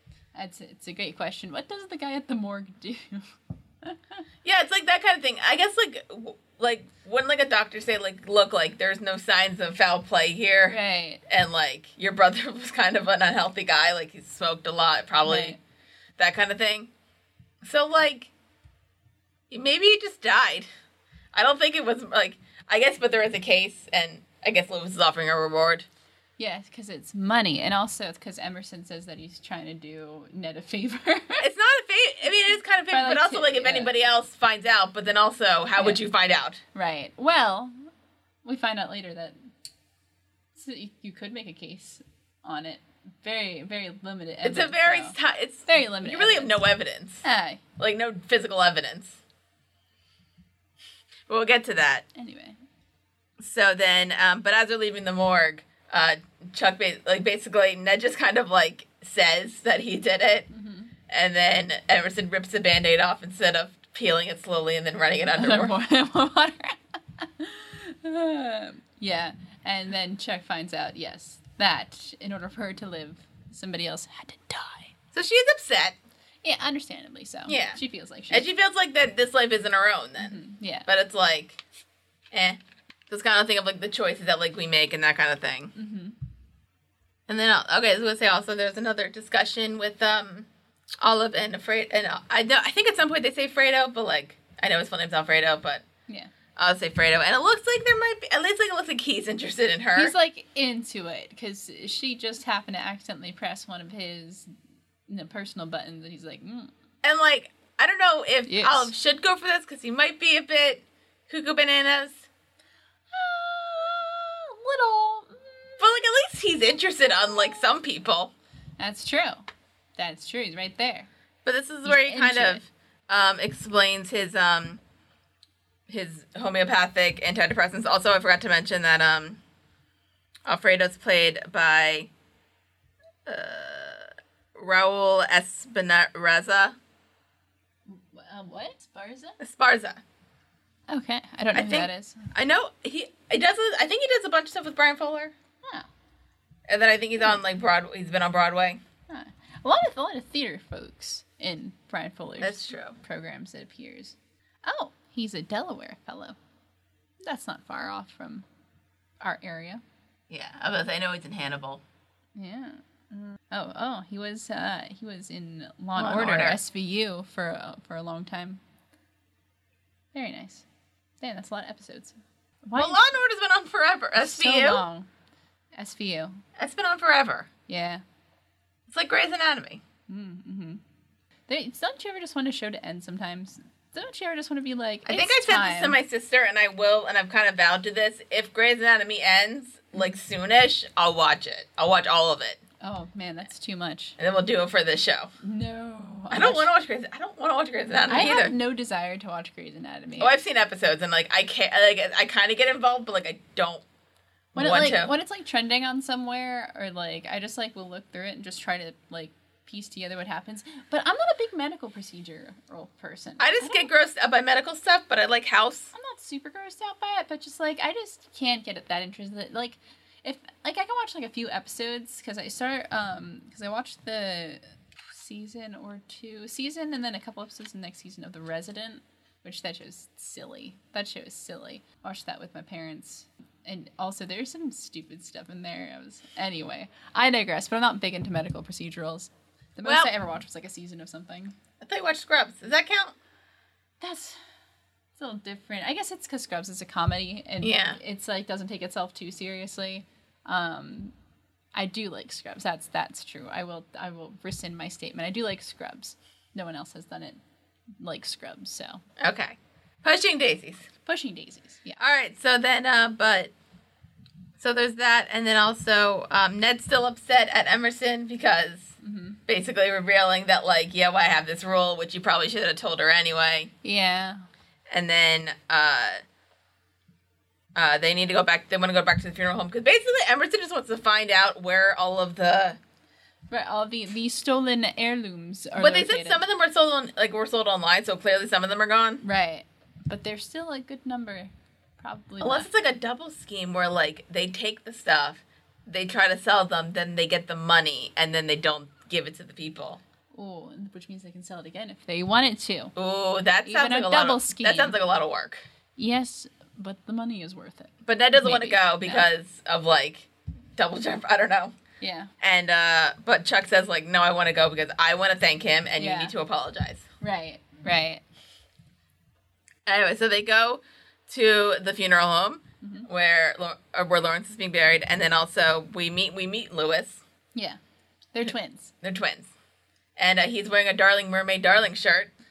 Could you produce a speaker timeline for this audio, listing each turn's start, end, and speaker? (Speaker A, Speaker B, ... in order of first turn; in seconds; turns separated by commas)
Speaker A: 0.3-4.2, Speaker B: 4.4-15.6, Speaker A: 10.7-11.2, Speaker A: 15.2-15.6, Speaker B: 16.2-16.9, Speaker B: 17.6-18.3, Speaker B: 19.5-20.7, Speaker B: 21.3-25.9, Speaker A: 26.4-31.4, Speaker B: 31.4-36.6, Speaker A: 32.9-34.0, Speaker A: 35.8-36.0, Speaker A: 36.8-37.9, Speaker A: 38.4-39.4, Speaker A: 40.5-45.1, Speaker B: 44.4-47.2, Speaker A: 45.7-46.6, Speaker A: 47.2-47.6, Speaker B: 47.8-49.2, Speaker B: 51.3-52.0, Speaker A: 52.1-52.6, Speaker B: 53.4-60.5, Speaker A: 60.5-60.9, Speaker B: 61.1-65.8, Speaker A: 65.4-74.9, Speaker B: 75.1-76.0, Speaker A: 76.4-78.5, Speaker B: 77.5-81.6, Speaker A: 80.2-80.9, Speaker B: 82.3-85.7, Speaker A: 85.7-86.2, Speaker B: 87.3-90.5, Speaker B: 91.0-95.8, Speaker B: 96.6-100.1, Speaker A: 99.9-104.5, Speaker A: 105.1-106.7, Speaker B: 107.0-112.3, Speaker A: 108.5-108.9, Speaker A: 113.1-115.9, Speaker B: 115.8-118.3, Speaker A: 117.1-117.7, Speaker A: 118.8-119.4, Speaker A: 120.0-121.1, Speaker B: 121.4-124.8, Speaker A: 121.8-122.6, Speaker B: 125.9-129.4, Speaker B: 130.5-132.1, Speaker B: 133.3-136.8, Speaker A: 137.9-139.4, Speaker B: 139.4-140.0, Speaker A: 140.9-142.3, Speaker B: 141.5-145.3, Speaker A: 145.6-145.9, Speaker B: 146.7-148.8, Speaker A: 149.1-156.4, Speaker B: 152.4-153.0, Speaker A: 157.2-158.4, Speaker A: 159.2-159.8, Speaker B: 160.3-161.8, Speaker A: 162.3-168.6, Speaker B: 165.9-166.6, Speaker A: 170.1-170.7, Speaker A: 171.2-173.1, Speaker B: 172.8-174.8, Speaker A: 174.2-175.1, Speaker A: 175.7-176.4, Speaker B: 176.6-177.5, Speaker A: 177.7-178.0, Speaker B: 178.9-179.8, Speaker A: 180.1-180.8, Speaker A: 181.5-186.0, Speaker B: 185.1-192.6, Speaker A: 192.8-194.2, Speaker B: 194.2-195.3, Speaker A: 195.4-196.7, Speaker B: 196.3-198.5, Speaker A: 198.1-200.4, Speaker B: 200.2-203.8, Speaker B: 204.6-205.1, Speaker A: 204.6-213.9, Speaker B: 213.4-215.9, Speaker A: 215.9-241.6, Speaker B: 239.8-240.1, Speaker B: 241.8-243.2, Speaker A: 244.0-244.4, Speaker A: 245.2-251.1, Speaker B: 247.6-248.0, Speaker A: 251.7-257.4, Speaker A: 258.0-259.0, Speaker B: 259.2-260.9, Speaker A: 261.1-262.0, Speaker B: 262.0-263.5, Speaker B: 264.6-273.7, Speaker A: 269.0-269.4, Speaker A: 273.8-274.4, Speaker B: 274.9-276.2, Speaker B: 277.7-282.8, Speaker A: 283.5-286.4, Speaker B: 285.8-289.2, Speaker A: 289.2-292.7, Speaker B: 292.4-300.0, Speaker A: 300.3-302.9, Speaker B: 302.9-305.6, Speaker A: 303.6-305.0, Speaker A: 306.0-309.3, Speaker B: 308.1-311.7, Speaker A: 312.0-312.3, Speaker B: 312.4-317.1, Speaker A: 316.0-316.3, Speaker A: 317.2-318.2, Speaker B: 319.9-327.2, Speaker A: 322.8-323.1, Speaker A: 327.5-327.8, Speaker A: 328.3-328.9, Speaker B: 329.0-329.5, Speaker B: 330.2-332.3